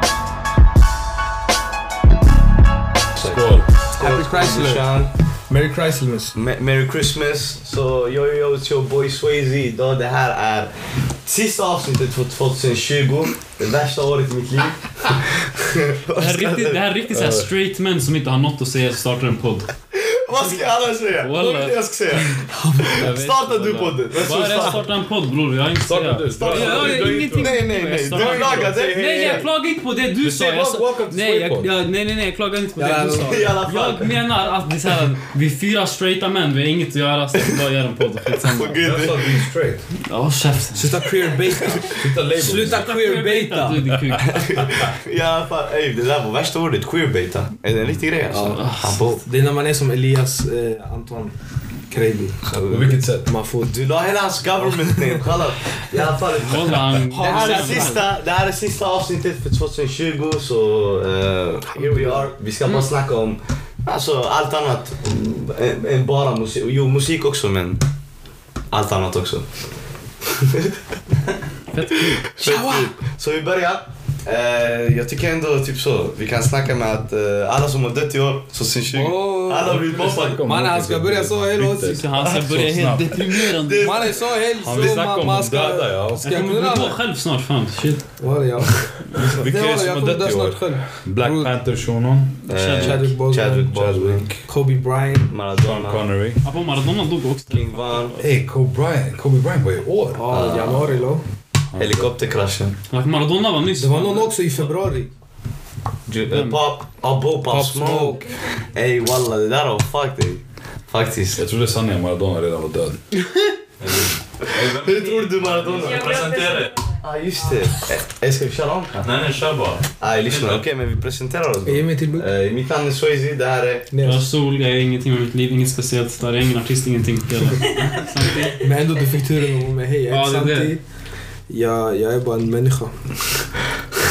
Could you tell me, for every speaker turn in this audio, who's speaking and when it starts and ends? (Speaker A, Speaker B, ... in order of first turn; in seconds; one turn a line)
Speaker A: 3.1-5.1
Speaker B: 3.3-3.7
Speaker C: 4.0-4.9
Speaker C: 5.5-6.3
Speaker A: 6.3-10.7
Speaker A: 11.2-16.8
Speaker D: 16.1-19.7
Speaker B: 17.1-17.5
Speaker A: 19.9-24.8
Speaker D: 21.2-21.8
Speaker C: 22.3-23.1
Speaker D: 22.9-38.8
Speaker B: 24.4-24.7
Speaker B: 25.9-27.6
Speaker A: 26.3-29.5
Speaker B: 28.2-28.6
Speaker B: 30.2-31.7
Speaker C: 32.8-33.6
Speaker A: 33.2-34.2
Speaker A: 38.4-39.4
Speaker B: 38.6-39.8
Speaker D: 40.0-41.1
Speaker C: 40.7-43.8
Speaker B: 41.9-42.9
Speaker D: 42.6-44.4
Speaker A: 44.3-49.2
Speaker D: 48.3-49.1
Speaker C: 49.2-51.3
Speaker C: 51.9-53.8
Speaker A: 52.5-52.9
Speaker B: 52.6-53.3
Speaker A: 53.6-67.8
Speaker C: 54.7-55.2
Speaker D: 56.4-58.1
Speaker C: 57.1-58.0
Speaker C: 61.8-62.3
Speaker A: 68.7-69.5
Speaker A: 70.3-70.8
Speaker D: 71.7-72.3
Speaker A: 71.9-80.4
Speaker C: 72.4-72.9
Speaker C: 78.9-79.9
Speaker B: 79.7-83.4
Speaker C: 80.4-82.0
Speaker D: 81.8-84.1
Speaker A: 83.2-84.2
Speaker C: 83.8-87.0
Speaker B: 84.6-86.2
Speaker D: 86.2-88.0
Speaker C: 88.2-91.5
Speaker B: 89.2-92.4
Speaker D: 92.5-93.1
Speaker A: 92.5-94.3
Speaker C: 92.7-95.3
Speaker A: 95.3-96.0
Speaker B: 95.6-96.4
Speaker D: 96.4-98.3
Speaker A: 97.5-98.2
Speaker B: 98.2-100.3
Speaker C: 100.1-101.2
Speaker A: 100.3-101.0
Speaker B: 101.7-102.1
Speaker A: 101.8-102.8
Speaker D: 102.9-104.3
Speaker C: 103.8-105.1
Speaker A: 106.1-111.5
Speaker D: 106.3-106.6
Speaker C: 107.5-108.3
Speaker B: 111.3-113.0
Speaker E: 113.8-116.9
Speaker A: 114.5-116.3
Speaker A: 116.9-119.1
Speaker E: 119.0-120.7
Speaker A: 120.0-123.9
Speaker C: 121.7-122.3
Speaker C: 123.9-124.3
Speaker D: 124.0-128.7
Speaker C: 128.6-130.8
Speaker D: 130.1-130.8
Speaker C: 131.5-133.0